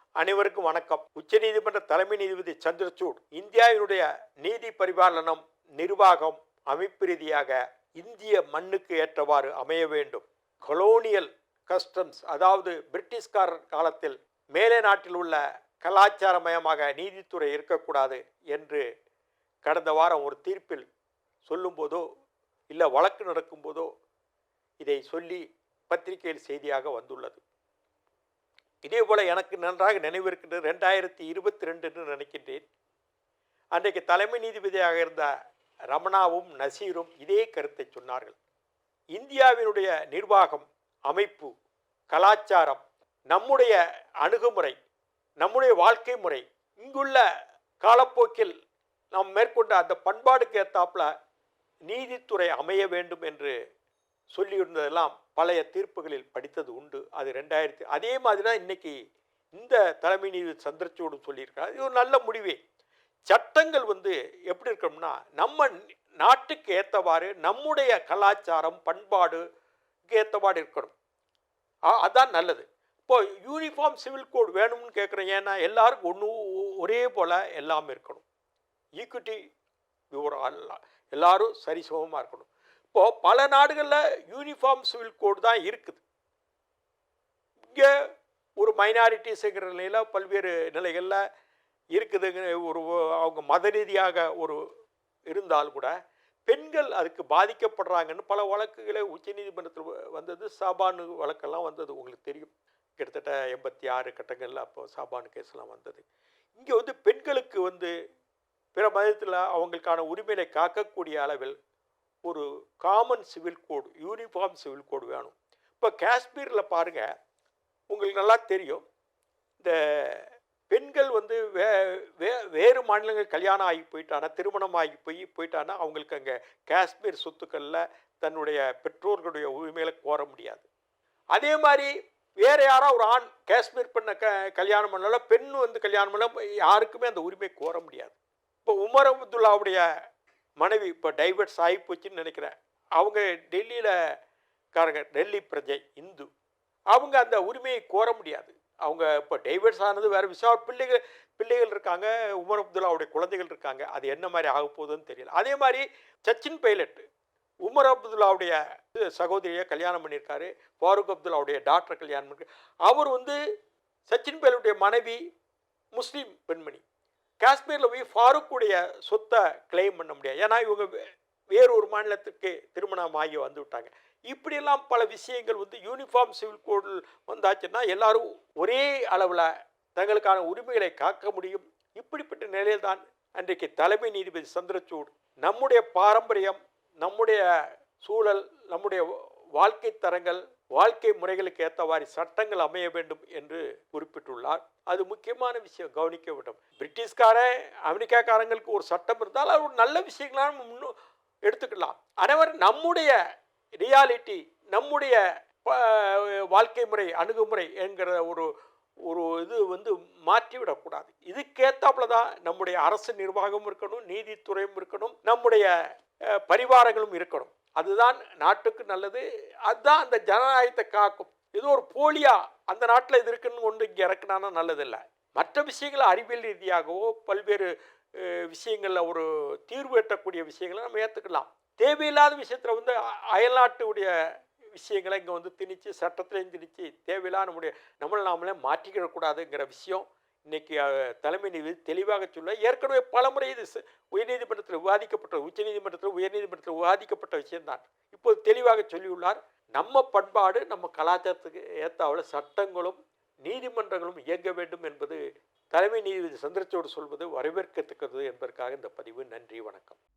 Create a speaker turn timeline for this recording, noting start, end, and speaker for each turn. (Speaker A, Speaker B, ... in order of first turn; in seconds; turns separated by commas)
Speaker A: 0.2-18.8, Speaker A: 19.6-20.8, Speaker A: 21.4-22.0, Speaker A: 22.7-23.9, Speaker A: 24.8-27.4, Speaker A: 28.8-32.6, Speaker A: 33.7-35.3, Speaker A: 35.9-38.4, Speaker A: 39.1-41.5, Speaker A: 42.1-44.8, Speaker A: 45.4-47.2, Speaker A: 47.8-48.5, Speaker A: 49.1-51.1, Speaker A: 51.9-53.5, Speaker A: 54.3-58.9, Speaker A: 59.5-62.6, Speaker A: 63.3-69.4, Speaker A: 70.1-70.9, Speaker A: 72.0-78.2, Speaker A: 79.0-79.4, Speaker A: 80.1-86.0, Speaker A: 88.6-91.2, Speaker A: 91.9-94.6, Speaker A: 95.3-95.9, Speaker A: 96.5-106.0, Speaker A: 106.6-107.9, Speaker A: 108.7-111.5, Speaker A: 112.2-117.1, Speaker A: 117.9-118.8, Speaker A: 119.6-130.7, Speaker A: 131.3-139.8, Speaker A: 140.6-143.9, Speaker A: 144.7-146.3, Speaker A: 146.9-157.0, Speaker A: 157.6-163.3, Speaker A: 164.1-165.2, Speaker A: 165.9-166.8, Speaker A: 167.4-170.9, Speaker A: 171.5-187.4, Speaker A: 188.0-200.9, Speaker A: 201.4-203.1, Speaker A: 203.8-208.5, Speaker A: 209.1-215.7, Speaker A: 216.5-234.1, Speaker A: 234.8-255.2, Speaker A: 255.7-260.0